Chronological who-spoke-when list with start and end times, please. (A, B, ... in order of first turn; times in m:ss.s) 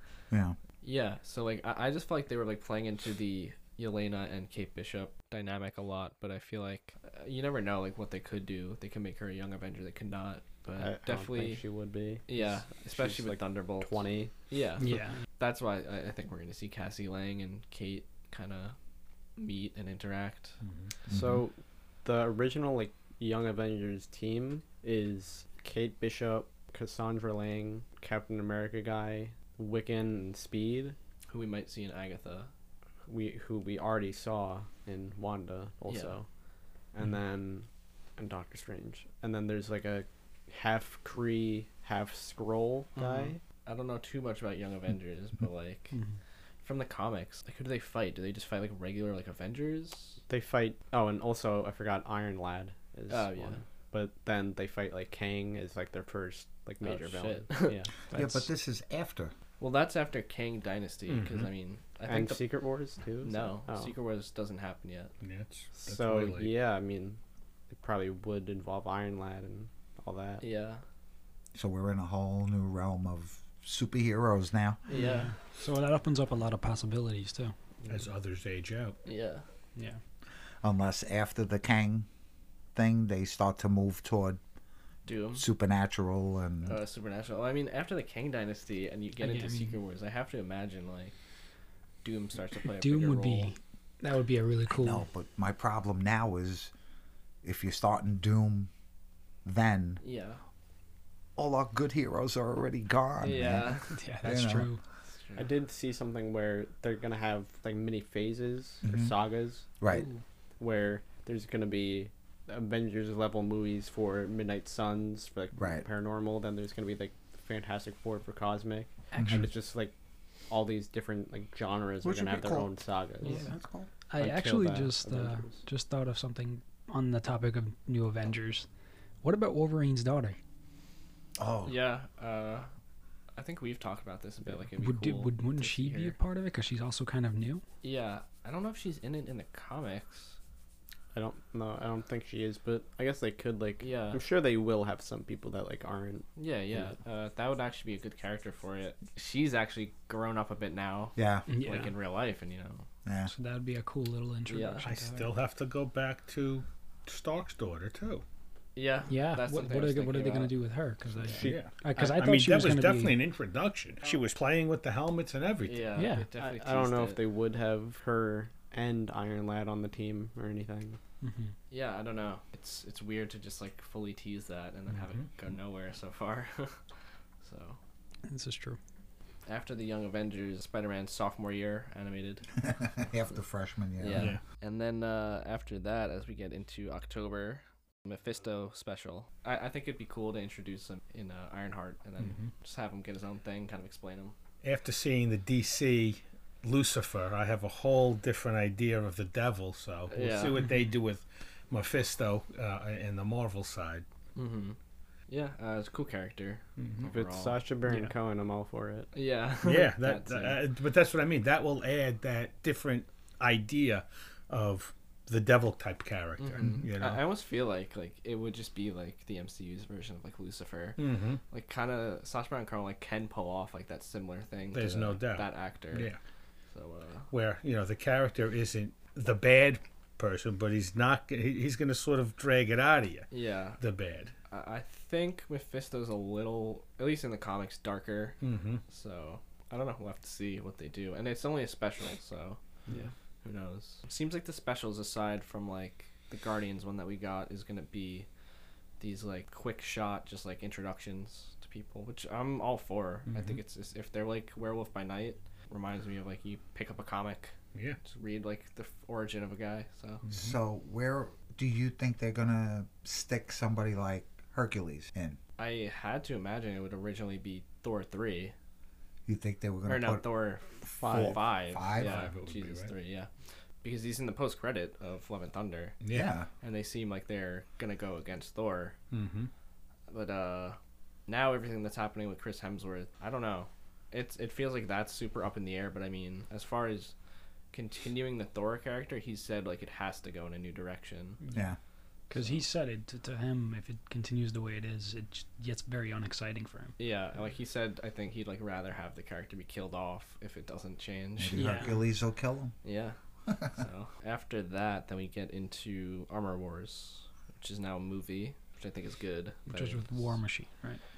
0:00.3-0:00.6 A
0:00.8-0:11.6 B
0:10.8-0:14.3 C
0:12.3-0:18.8 B
0:14.8-0:15.2 D
0:19.4-0:20.6 B
0:20.6-0:20.9 E
0:21.1-0:21.4 A
0:21.1-0:31.0 C
0:31.3-0:32.5 B
0:33.1-0:36.3 C
0:35.9-0:36.2 B
0:36.9-0:43.4 C
0:43.0-0:46.0 B
0:45.9-0:46.2 D
0:46.6-0:50.2 B
0:50.3-0:57.9 C
0:53.1-0:53.6 B
0:56.8-0:58.4 B
0:58.1-0:59.3 A
0:59.6-1:02.4 B
1:01.1-1:01.5 E
1:02.0-1:03.9 C
1:03.2-1:05.1 B
1:05.2-1:06.5 E
1:05.8-1:10.4 C
1:10.4-1:10.8 B
1:11.6-1:14.8 A
1:14.9-1:15.3 B
1:14.9-1:17.6 D
1:17.9-1:19.0 E
1:19.0-1:19.4 B
1:20.6-1:22.1 A
1:22.8-1:24.4 A
1:25.0-1:25.5 B
1:25.4-1:26.8 A
1:26.6-1:31.1 B
1:29.2-1:29.8 D
1:32.0-1:33.6 B
1:32.8-1:35.0 D
1:34.7-1:36.7 A
1:37.4-1:38.7 A
1:39.4-1:40.0 A
1:40.0-1:40.4 B
1:41.4-1:44.7 A
1:43.2-1:44.0 B
1:43.9-1:44.8 D
1:45.1-1:45.5 B
1:45.4-1:49.7 C
1:48.8-1:49.1 A
1:49.8-1:50.1 A
1:49.9-1:50.2 D
1:50.6-1:59.9 C
1:55.6-1:55.9 A
1:59.1-1:59.5 A
2:00.5-2:03.5 C
2:02.0-2:02.7 A
2:03.3-2:08.7 D
2:03.3-2:03.9 A
2:04.2-2:05.6 C
2:09.2-2:10.4 D
2:11.4-2:11.8 A
2:11.6-2:12.7 B
2:13.4-2:16.2 B
2:14.8-2:17.6 D
2:17.8-2:20.4 B
2:21.1-2:27.0 C
2:23.8-2:24.2 B
2:26.4-2:32.9 B
2:31.2-2:31.5 A
2:31.5-2:31.9 D
2:33.0-2:33.3 A
2:33.3-2:35.3 D
2:34.5-2:34.9 B
2:34.8-2:38.2 E
2:38.8-2:40.6 B
2:39.1-2:43.2 D
2:41.2-2:41.5 B
2:41.3-2:41.6 C
2:41.4-2:46.0 E
2:45.6-2:47.2 B
2:46.0-2:46.3 D
2:46.4-2:51.0 C
2:51.2-2:51.5 D
2:51.7-2:56.8 B
2:54.9-2:55.3 E
2:57.4-2:57.8 B
2:58.3-2:58.8 D
2:59.5-3:02.5 B
3:02.6-3:04.4 A
3:04.0-3:14.4 B
3:04.2-3:04.4 E
3:12.2-3:12.5 E
3:14.6-3:24.0 E
3:20.1-3:20.6 B
3:20.6-3:20.8 D
3:24.4-3:24.8 B
3:25.3-3:27.6 B
3:26.8-3:27.1 E
3:27.1-3:29.1 C
3:27.9-3:28.1 D
3:29.1-3:30.6 B
3:29.6-3:37.2 E
3:36.4-3:46.1 B
3:41.0-3:41.4 E
3:44.7-3:46.2 E
3:46.7-3:47.3 B
3:47.3-3:54.3 E
3:53.3-3:53.8 B
3:54.5-4:02.6 B
3:58.4-3:58.8 E
4:03.4-4:08.3 B
4:09.0-4:20.2 B
4:13.3-4:13.6 E
4:20.2-4:20.6 E
4:20.3-4:25.4 A
4:25.6-4:28.6 B
4:29.3-4:30.3 A
4:29.9-4:33.3 B
4:30.8-4:32.3 A
4:31.0-4:31.5 C
4:31.9-4:32.9 E
4:33.8-4:36.0 B
4:36.0-4:36.4 E
4:36.1-4:36.5 A
4:36.6-4:39.0 B
4:39.1-4:39.5 E
4:40.1-4:47.1 B
4:47.7-4:51.4 B
4:51.5-4:51.8 A
4:52.3-4:52.7 B
4:52.3-4:57.0 D
4:57.0-5:01.9 B
5:01.4-5:02.8 A
5:01.6-5:02.0 D
5:02.8-5:10.4 B
5:09.7-5:11.0 D